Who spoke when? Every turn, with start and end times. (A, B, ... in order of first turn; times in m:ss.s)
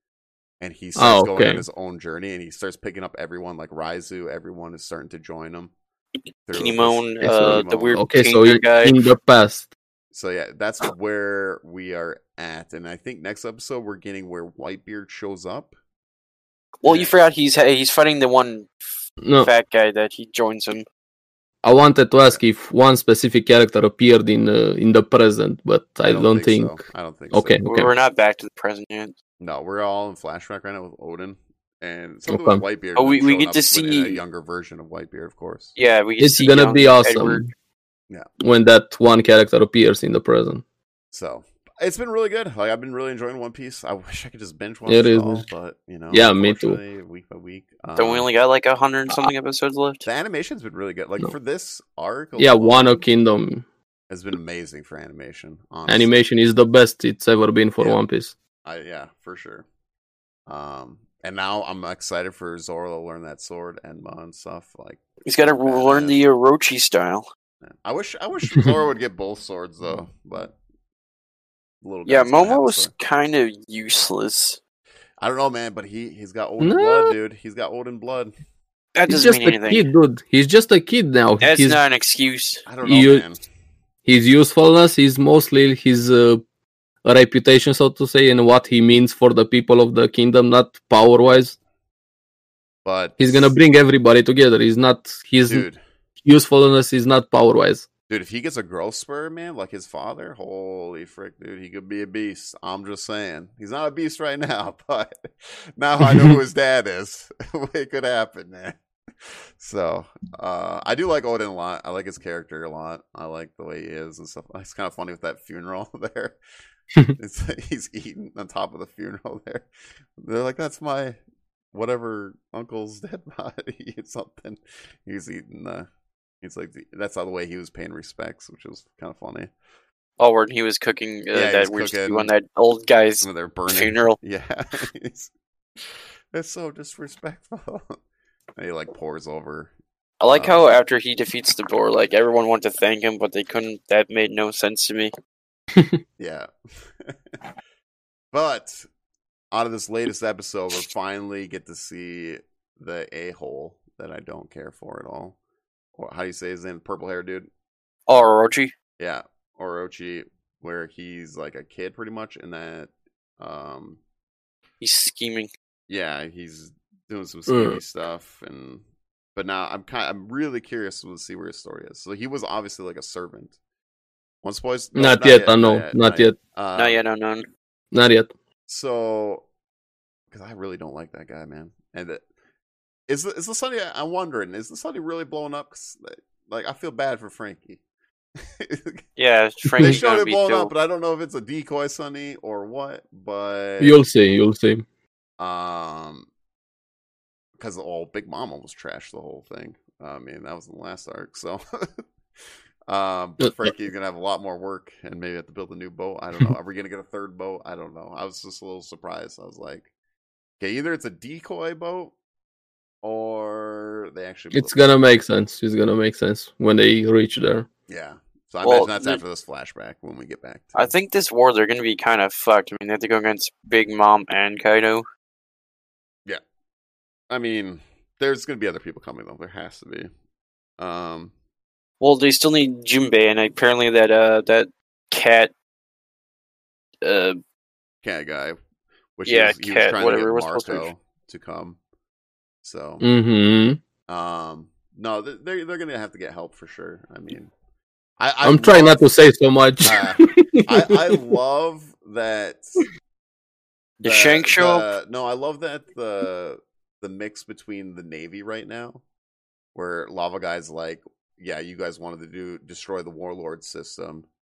0:00.6-0:05.7 A
0:01.0-0:01.6 B
0:06.5-0:08.0 A
0:06.6-0:08.9 C
0:07.2-0:09.7 B
0:10.1-0:15.7 A
0:16.8-0:18.7 C
0:16.8-0:17.1 A
0:19.2-0:19.5 B
0:19.4-0:20.9 C
0:21.6-0:26.8 B
0:26.0-0:27.6 A
0:27.3-0:27.9 B
0:27.7-0:29.2 C
0:29.4-0:35.8 A
0:32.3-0:32.6 B
0:33.0-0:34.2 C
0:35.8-0:37.4 C
0:36.2-0:37.5 B
0:38.4-0:40.6 B
0:41.1-0:48.3 A
0:44.9-0:45.5 B
0:46.1-0:46.8 B
0:48.0-0:50.1 C
0:50.0-0:53.0 A
0:52.4-0:53.6 B
0:54.1-0:56.1 A
0:55.9-0:58.4 B
0:58.6-0:59.6 A
1:00.5-1:05.0 A
1:05.2-1:07.2 C
1:05.6-1:06.2 A
1:07.6-1:10.6 A
1:11.8-1:12.9 A
1:12.1-1:14.6 C
1:15.2-1:18.3 A
1:16.6-1:17.2 B
1:19.0-1:19.8 C
1:19.1-1:21.8 B
1:21.4-1:22.6 C
1:22.7-1:23.4 A
1:22.8-1:23.2 B
1:24.1-1:26.4 B
1:27.0-1:31.6 B
1:32.8-1:33.6 A
1:33.2-1:35.7 B
1:35.5-1:35.8 A
1:36.2-1:37.9 B
1:38.1-1:56.4 A
1:46.1-1:46.4 B
1:57.2-1:59.7 A
2:00.2-2:01.2 A
2:01.7-2:05.9 A
2:06.4-2:09.5 A
2:10.2-2:14.2 C
2:11.3-2:12.3 A
2:13.2-2:15.3 A
2:15.8-2:18.0 A
2:18.6-2:19.7 A
2:20.2-2:25.1 C
2:20.3-2:20.7 A
2:25.8-2:26.0 B
2:26.2-2:26.5 A
2:28.3-2:28.9 A
2:29.5-2:35.4 A
2:36.0-2:37.5 A
2:38.1-2:38.7 C
2:39.0-2:44.0 A
2:44.8-2:45.5 C
2:45.9-2:48.8 A
2:47.5-2:47.8 B
2:49.4-2:53.6 A
2:54.4-2:57.0 A
2:55.0-2:56.4 B
2:56.8-2:57.5 C
2:57.9-2:58.3 B
2:58.7-2:59.4 A
3:00.3-3:02.2 A
3:03.1-3:07.8 A
3:08.4-3:09.0 A
3:09.2-3:10.7 C
3:09.7-3:10.0 B
3:09.8-3:14.0 A
3:13.8-3:14.8 B
3:15.4-3:16.3 A
3:17.6-3:21.9 A
3:22.9-3:29.9 A
3:23.4-3:23.7 B
3:30.6-3:32.1 A
3:33.0-3:34.9 A
3:34.5-3:37.7 B
3:37.9-3:40.9 A
3:38.6-3:39.2 C
3:40.8-3:45.0 C
3:47.3-3:50.1 A
3:50.8-3:51.3 A
3:52.0-3:55.5 C
3:57.0-3:57.4 C
3:58.0-3:58.6 A
3:59.2-4:01.8 A
3:59.3-4:00.9 C
4:02.6-4:03.1 A
4:03.0-4:03.8 B
4:04.1-4:07.5 A
4:08.2-4:09.1 A
4:08.4-4:11.2 B
4:09.8-4:12.8 A
4:14.0-4:14.9 C
4:14.0-4:19.0 A
4:19.8-4:24.3 A